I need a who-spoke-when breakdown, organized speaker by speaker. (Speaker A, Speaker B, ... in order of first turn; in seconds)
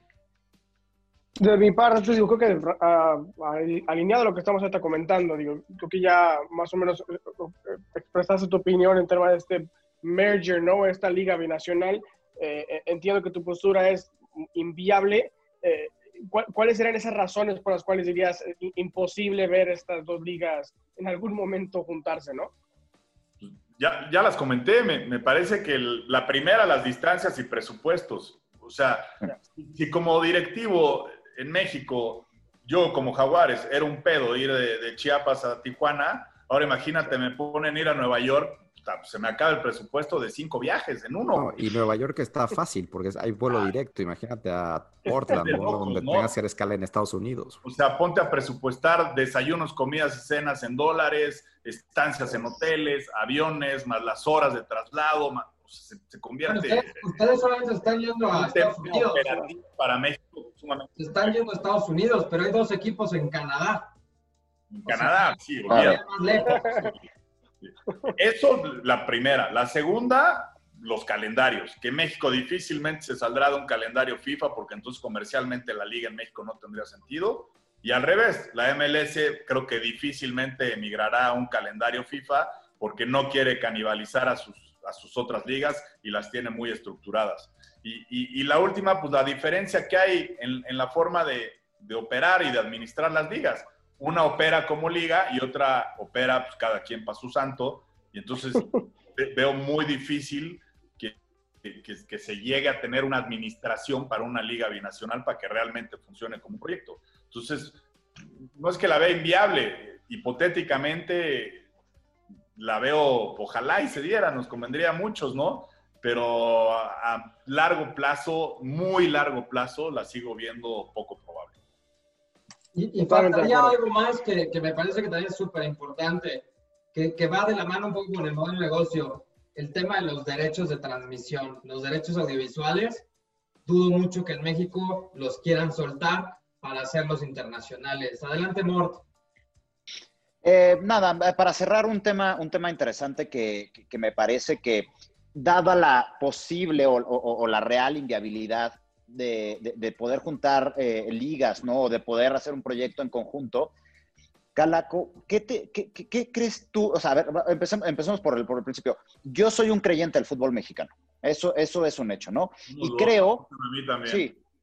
Speaker A: 1.4-22.5, 66.5-66.9, 123.0-123.7
Speaker B: 23.4-41.6, 45.3-46.3, 47.6-57.1, 58.3-61.4, 64.7-67.0, 67.6-107.8, 108.5-111.7, 112.5-121.5, 162.7-164.3
Speaker C: 41.4-47.6
Speaker D: 56.5-59.4, 61.0-63.9, 64.9-66.7, 122.7-133.1, 133.7-139.0
Speaker E: 65.7-66.0, 140.4-153.7, 154.6-163.4, 164.1-164.4